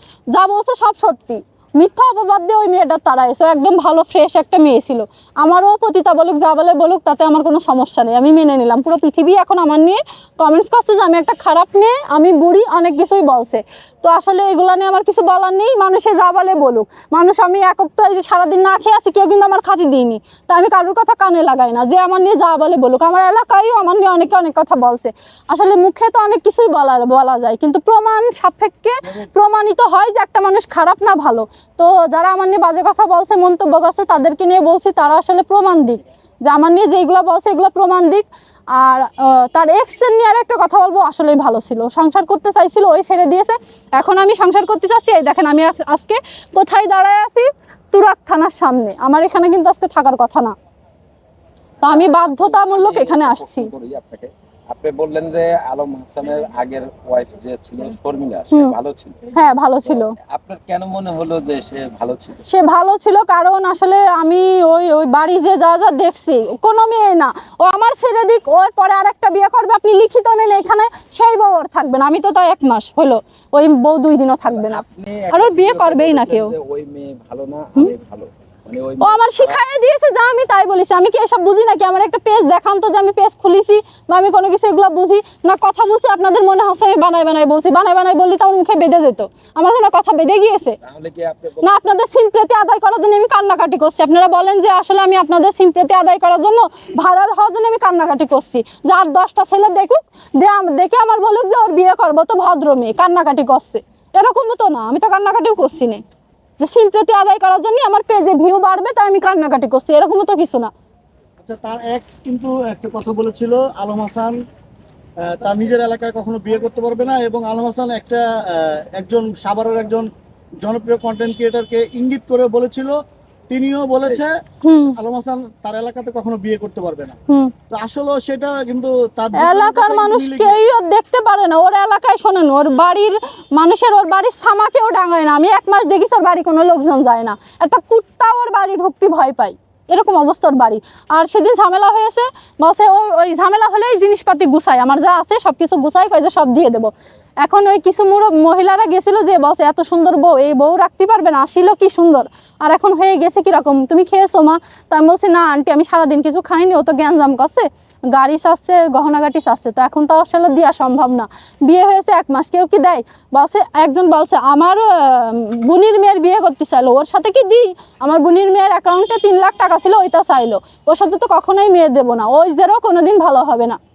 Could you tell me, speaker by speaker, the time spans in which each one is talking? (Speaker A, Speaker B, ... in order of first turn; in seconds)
Speaker A: 0.3-50.5, 51.8-53.7, 59.3-60.1, 62.5-76.5, 79.0-90.8, 91.6-106.0, 106.6-110.7, 124.6-125.0, 129.4-173.8
Speaker B: 51.8-59.2, 59.8-62.4, 74.5-79.6, 90.8-91.8
Speaker C: 111.4-114.4, 115.2-120.1, 120.6-123.0, 123.5-127.2, 127.7-130.6